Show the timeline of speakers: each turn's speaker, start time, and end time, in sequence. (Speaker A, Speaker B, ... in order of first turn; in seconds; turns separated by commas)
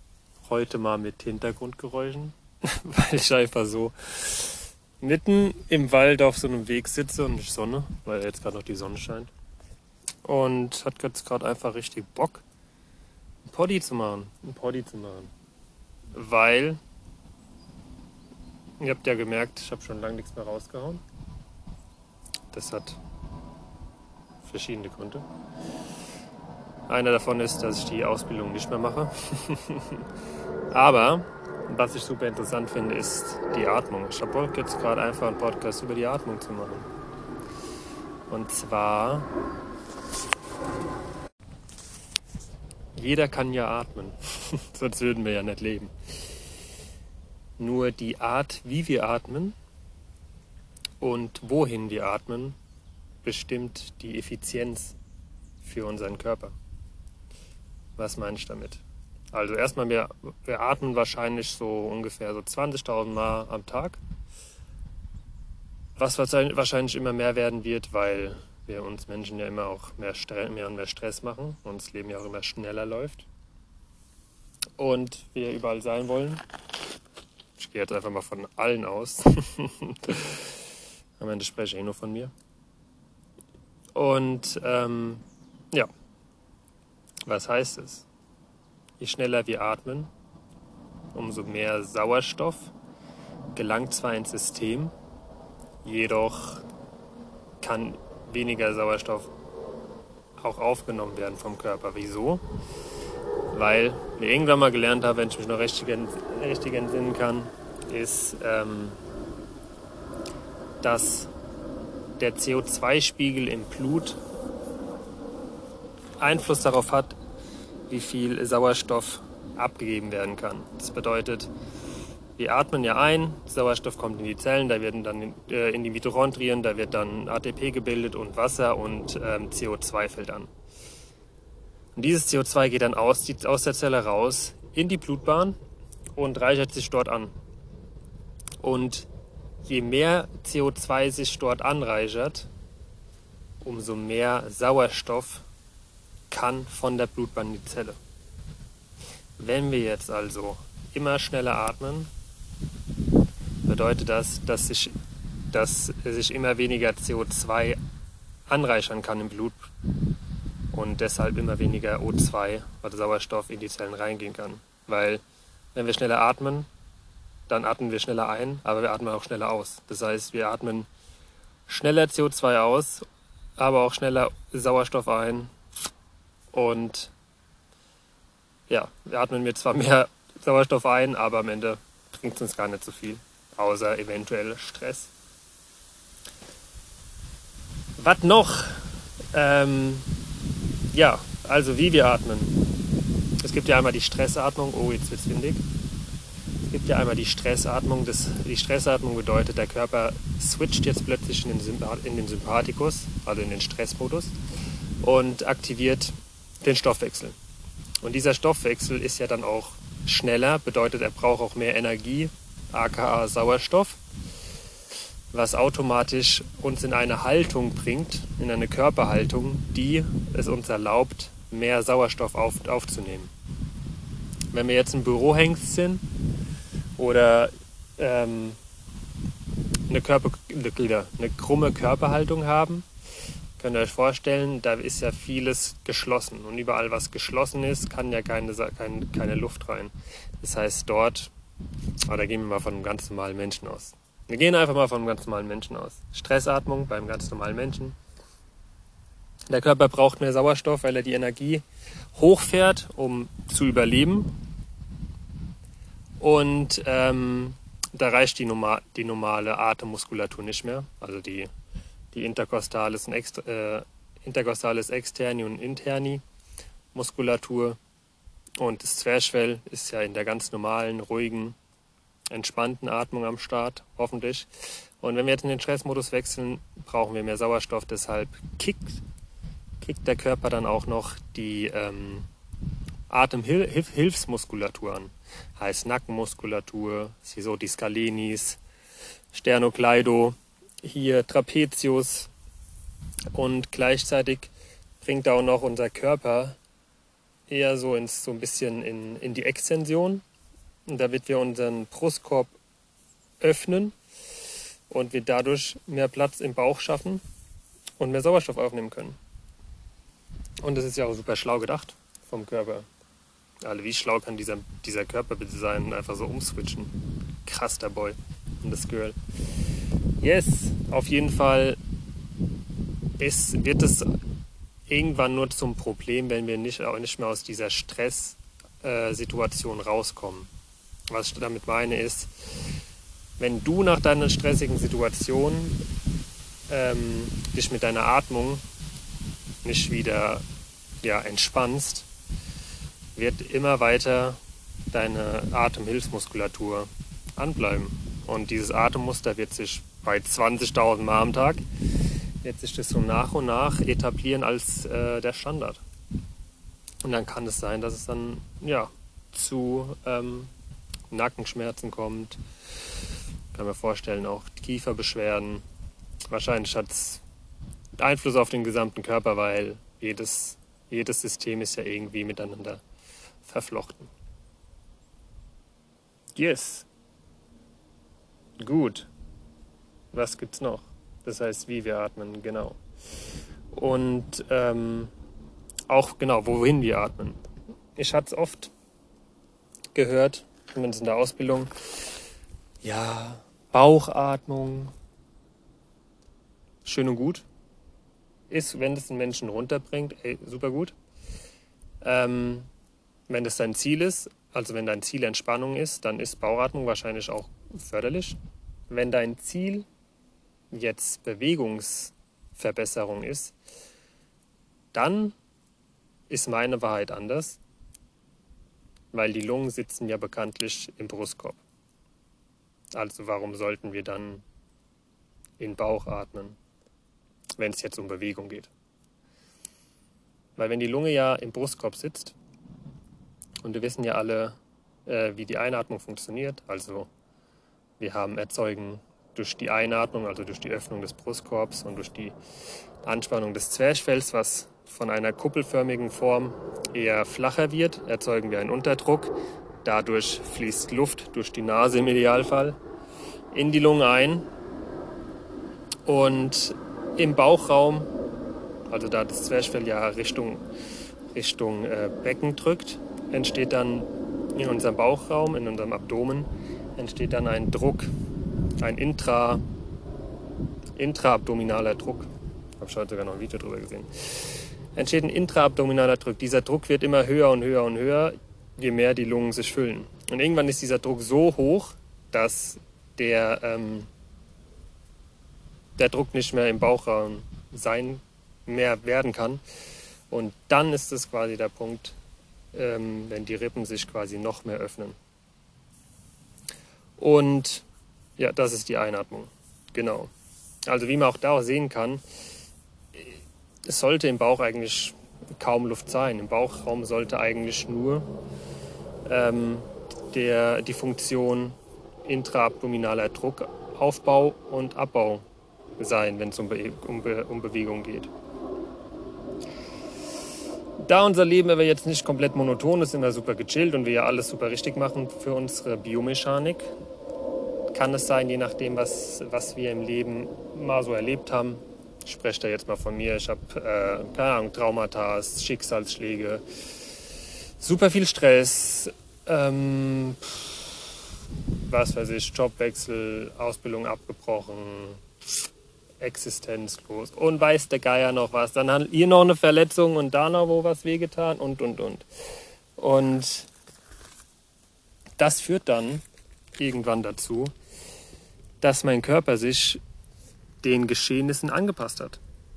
Speaker A: 0.5-9.3, Speaker A: 10.2-12.4, Speaker A: 13.4-15.3, Speaker A: 16.1-16.8, Speaker A: 18.8-21.0, Speaker A: 22.5-23.0, Speaker A: 24.4-25.2, Speaker A: 26.9-30.0, Speaker A: 30.7-36.9, Speaker A: 38.3-39.3, Speaker A: 43.0-45.9, Speaker A: 47.6-49.6, Speaker A: 51.0-52.6, Speaker A: 53.2-55.0, Speaker A: 55.6-56.6, Speaker A: 58.0-64.0, Speaker A: 66.0-73.3, Speaker A: 74.8-76.4, Speaker A: 77.6-80.5, Speaker A: 81.2-82.3, Speaker A: 84.0-85.9, Speaker A: 87.2-88.1, Speaker A: 89.0-90.1, Speaker A: 91.1-92.7, Speaker A: 93.5-94.9, Speaker A: 95.8-96.6, Speaker A: 97.6-99.3, Speaker A: 100.4-102.4, Speaker A: 103.5-109.0, Speaker A: 110.8-111.3, Speaker A: 112.2-114.2, Speaker A: 116.2-117.2, Speaker A: 117.9-121.5, Speaker A: 122.4-130.5, Speaker A: 132.0-135.6, Speaker A: 136.2-137.3, Speaker A: 138.6-139.1, Speaker A: 139.7-142.5, Speaker A: 143.6-145.4, Speaker A: 146.3-148.0, Speaker A: 149.4-152.1, Speaker A: 153.7-154.9, Speaker A: 155.5-157.8, Speaker A: 158.5-159.7, Speaker A: 160.7-165.2, Speaker A: 165.8-166.7, Speaker A: 167.5-170.9, Speaker A: 171.7-175.5, Speaker A: 176.5-177.1, Speaker A: 178.7-185.1, Speaker A: 188.0-190.1, Speaker A: 190.9-192.6, Speaker A: 193.4-195.6, Speaker A: 196.7-204.3, Speaker A: 205.0-207.4, Speaker A: 208.0-214.0, Speaker A: 215.3-223.3, Speaker A: 224.5-226.0, Speaker A: 227.0-228.6, Speaker A: 229.9-232.9, Speaker A: 233.6-241.3, Speaker A: 242.1-248.0, Speaker A: 249.5-251.6, Speaker A: 252.2-254.4, Speaker A: 256.2-261.5, Speaker A: 262.1-266.2, Speaker A: 266.9-267.8, Speaker A: 268.6-271.6, Speaker A: 272.3-279.0, Speaker A: 279.8-282.3, Speaker A: 283.1-288.6, Speaker A: 289.3-292.3, Speaker A: 293.3-296.6, Speaker A: 297.5-300.2, Speaker A: 300.9-302.5, Speaker A: 303.4-303.9, Speaker A: 304.9-307.2, Speaker A: 308.0-309.2, Speaker A: 310.6-312.9, Speaker A: 313.6-319.2, Speaker A: 320.2-321.8, Speaker A: 323.2-324.2, Speaker A: 324.9-330.5, Speaker A: 331.1-332.3, Speaker A: 333.4-335.8, Speaker A: 336.7-338.6, Speaker A: 339.6-340.4, Speaker A: 341.0-342.1, Speaker A: 343.1-344.4, Speaker A: 344.9-351.6, Speaker A: 352.4-355.8, Speaker A: 357.0-360.5, Speaker A: 361.1-362.4, Speaker A: 363.5-365.6, Speaker A: 366.3-367.2, Speaker A: 368.0-372.8, Speaker A: 373.4-374.1, Speaker A: 376.4-376.9, Speaker A: 378.6-379.1, Speaker A: 380.1-382.8, Speaker A: 383.7-385.1, Speaker A: 385.9-387.4, Speaker A: 388.0-388.7, Speaker A: 389.9-391.7, Speaker A: 392.8-394.9, Speaker A: 396.9-397.5, Speaker A: 398.5-400.9, Speaker A: 402.0-402.7, Speaker A: 403.3-408.4, Speaker A: 408.9-409.9, Speaker A: 410.7-413.6, Speaker A: 414.9-415.4, Speaker A: 416.3-417.6, Speaker A: 419.1-421.6, Speaker A: 422.9-424.4, Speaker A: 425.6-426.6, Speaker A: 427.6-428.7, Speaker A: 430.6-432.4, Speaker A: 433.6-437.1, Speaker A: 438.0-442.4, Speaker A: 443.0-452.8, Speaker A: 453.5-454.5, Speaker A: 456.1-458.1, Speaker A: 458.9-460.6, Speaker A: 461.3-468.1, Speaker A: 468.8-469.6, Speaker A: 471.0-472.3, Speaker A: 472.8-484.1, Speaker A: 486.0-489.6, Speaker A: 490.3-492.2, Speaker A: 492.7-495.2, Speaker A: 497.2-497.9, Speaker A: 498.4-500.3, Speaker A: 500.9-502.2, Speaker A: 503.1-508.3, Speaker A: 509.2-515.5, Speaker A: 516.0-518.3, Speaker A: 521.0-526.9, Speaker A: 527.9-536.6, Speaker A: 537.8-541.0, Speaker A: 541.9-545.2, Speaker A: 546.2-552.3, Speaker A: 553.0-553.7, Speaker A: 555.4-556.2, Speaker A: 556.8-557.7, Speaker A: 558.8-560.0, Speaker A: 560.8-562.4